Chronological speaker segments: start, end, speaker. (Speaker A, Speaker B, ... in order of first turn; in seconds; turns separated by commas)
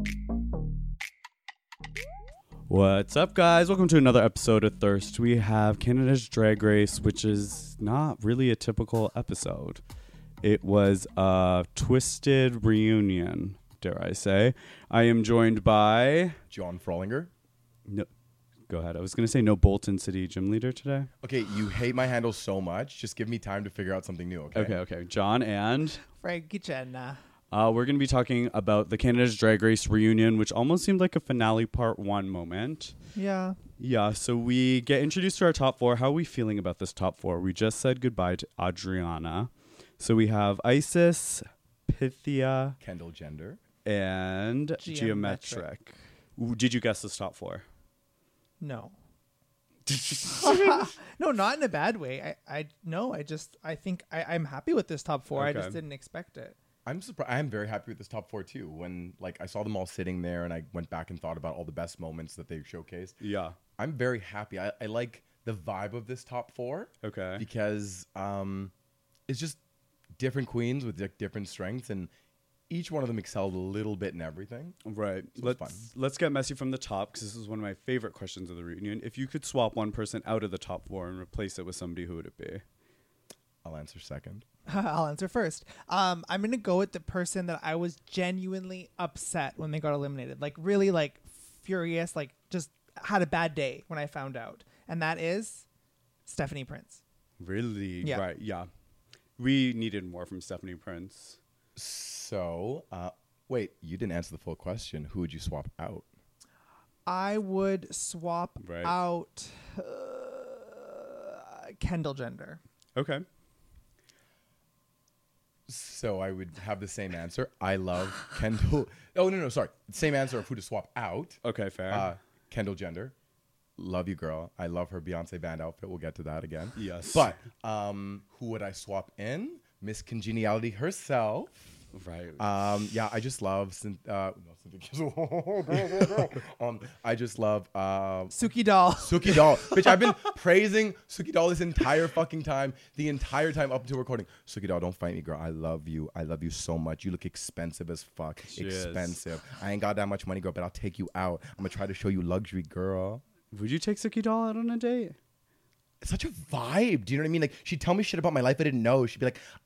Speaker A: 2.7-9.8, Speaker A: 10.4-16.4, Speaker B: 16.5-17.3, Speaker A: 18.7-21.1, Speaker B: 21.2-24.8, Speaker A: 24.5-26.0, Speaker C: 26.1-27.2, Speaker A: 27.5-32.9, Speaker C: 33.1-33.6, Speaker A: 33.8-42.8, Speaker B: 42.8-43.6, Speaker A: 43.8-47.6, Speaker C: 44.8-45.6, Speaker C: 48.6-48.9, Speaker A: 49.9-50.9, Speaker C: 50.4-56.6, Speaker A: 55.3-55.8, Speaker B: 56.9-63.2, Speaker A: 63.2-63.6, Speaker B: 63.8-68.7, Speaker A: 67.0-67.4, Speaker B: 69.3-69.6, Speaker B: 70.2-72.1, Speaker B: 72.7-74.8, Speaker A: 74.8-82.6, Speaker B: 75.4-75.8, Speaker B: 83.6-84.4, Speaker C: 84.7-95.7, Speaker C: 96.2-97.0, Speaker A: 97.4-98.7, Speaker A: 99.4-101.4, Speaker B: 101.8-106.0, Speaker C: 107.0-112.6, Speaker A: 108.6-108.9, Speaker A: 113.0-113.2, Speaker B: 115.7-121.4, Speaker A: 121.4-122.1, Speaker B: 121.9-123.1, Speaker B: 123.8-131.6, Speaker A: 126.8-127.3, Speaker A: 131.9-132.4, Speaker B: 132.4-138.3, Speaker C: 138.3-139.4, Speaker B: 139.0-153.2, Speaker A: 148.5-149.2, Speaker A: 153.5-155.2, Speaker B: 156.0-159.4